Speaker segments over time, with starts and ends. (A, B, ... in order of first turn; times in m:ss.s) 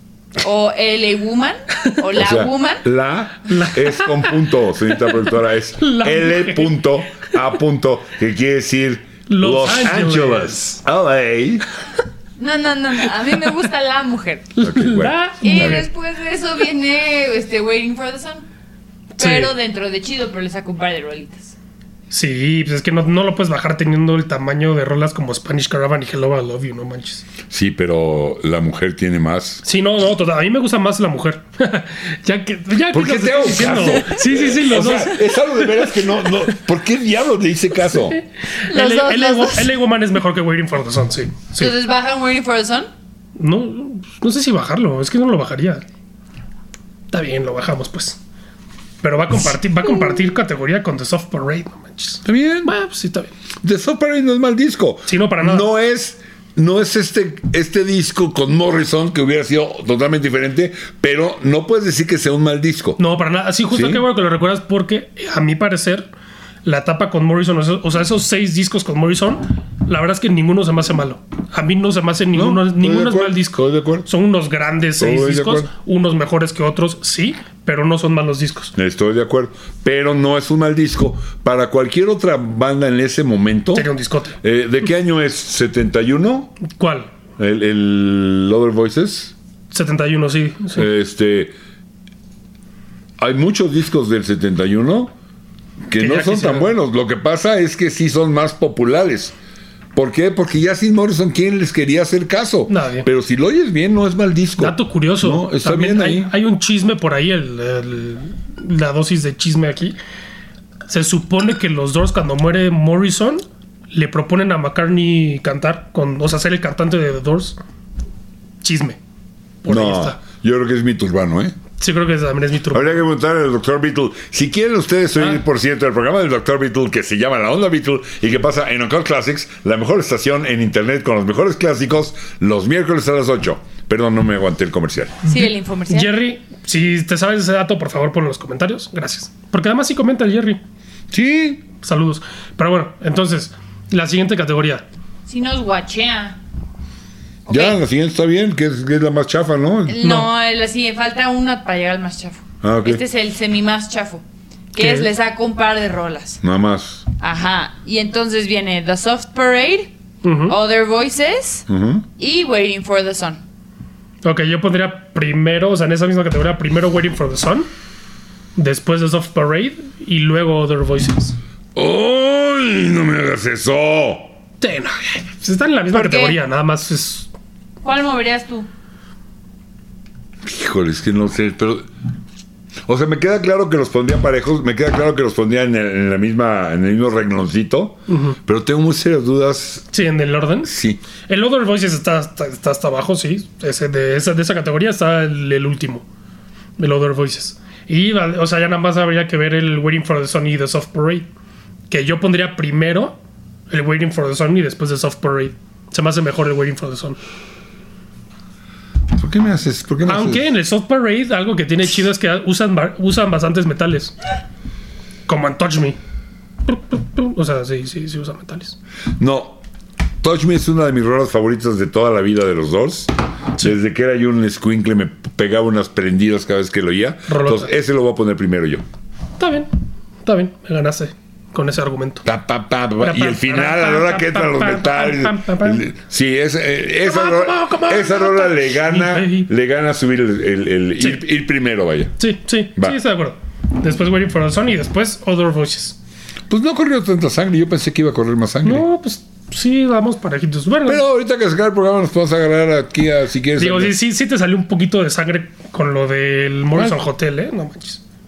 0:00.4-0:02.8 A
0:02.2-0:11.6 B
0:03.5-0:04.4 C
0:04.9-0:05.3 C
0:05.8-0:07.2 C
0:09.3-0:10.7 C
0:12.4-0:14.5 A
0:14.6-0:15.9 C
0:14.6-0:15.8 B
0:15.4-0:18.5 A
0:19.2-0:21.6 A
0:19.2-0:19.5 C
0:22.1-0:27.2 C
0:27.5-0:29.6 B
0:29.6-0:36.4 C
0:32.9-0:38.2 B
0:38.6-0:41.7 C
0:38.7-0:39.7 A
0:41.6-0:42.9 A
0:43.4-0:45.8 C
0:47.1-0:48.2 C
0:49.0-0:53.3 C
0:50.0-0:50.2 A
0:52.2-0:52.7 B
0:53.6-1:03.0 B
0:55.1-0:55.7 C
1:03.0-1:06.1 C
1:03.7-1:04.0 B
1:06.6-1:18.7 C
1:12.3-1:14.1 B
1:15.0-1:15.7 B
1:18.8-1:23.9 B
1:23.7-1:24.4 C
1:24.4-1:26.6 B
1:26.7-1:27.1 C
1:27.4-1:29.3 B
1:29.7-1:30.9 C
1:30.7-1:31.5 B
1:33.2-1:35.1 B
1:35.9-1:39.3 B
1:36.0-1:36.7 C
1:40.0-1:46.3 B
1:42.7-1:43.1 C
1:44.6-1:50.0 C
1:50.9-1:57.6 C
1:58.6-1:59.0 C
1:59.6-2:00.2 C
1:59.7-2:01.6 B
2:01.8-2:03.0 C
2:02.7-2:15.2 B
2:15.2-2:16.1 A
2:15.2-2:20.6 C
2:21.1-2:21.6 B
2:21.8-2:24.8 C
2:25.3-2:26.4 A
2:27.5-2:27.8 A
2:27.5-2:30.0 B
2:29.9-2:36.4 A
2:30.0-2:30.3 C
2:32.6-2:33.0 B
2:34.8-2:35.1 C
2:36.4-2:37.1 B
2:37.2-2:39.9 A
2:40.2-2:40.6 C
2:40.5-2:41.6 A
2:41.7-2:42.1 B
2:42.2-2:43.4 A
2:44.2-2:47.7 C
2:48.6-2:51.4 C
2:51.8-2:54.3 B
2:54.6-2:57.3 C
2:55.9-2:56.4 A
2:57.8-2:58.7 A
3:00.4-3:01.9 B
3:02.9-3:09.8 B
3:08.1-3:08.4 C
3:09.9-3:10.7 C
3:10.6-3:11.0 B
3:11.3-3:16.0 C
3:16.8-3:21.3 C
3:21.9-3:23.2 C
3:23.7-3:27.2 C
3:29.2-3:30.5 B
3:30.0-3:34.1 C
3:35.3-3:36.0 C
3:36.7-3:38.8 C
3:39.2-3:39.6 B
3:40.2-3:48.8 B
3:47.3-3:47.7 C
3:49.4-3:49.7 C
3:50.2-3:52.2 C
3:52.2-4:02.1 B
3:53.0-3:55.8 C
3:57.0-3:59.5 C
4:02.2-4:06.0 C
4:06.5-4:08.8 B
4:08.6-4:11.0 C
4:10.9-4:13.9 B
4:13.6-4:18.0 C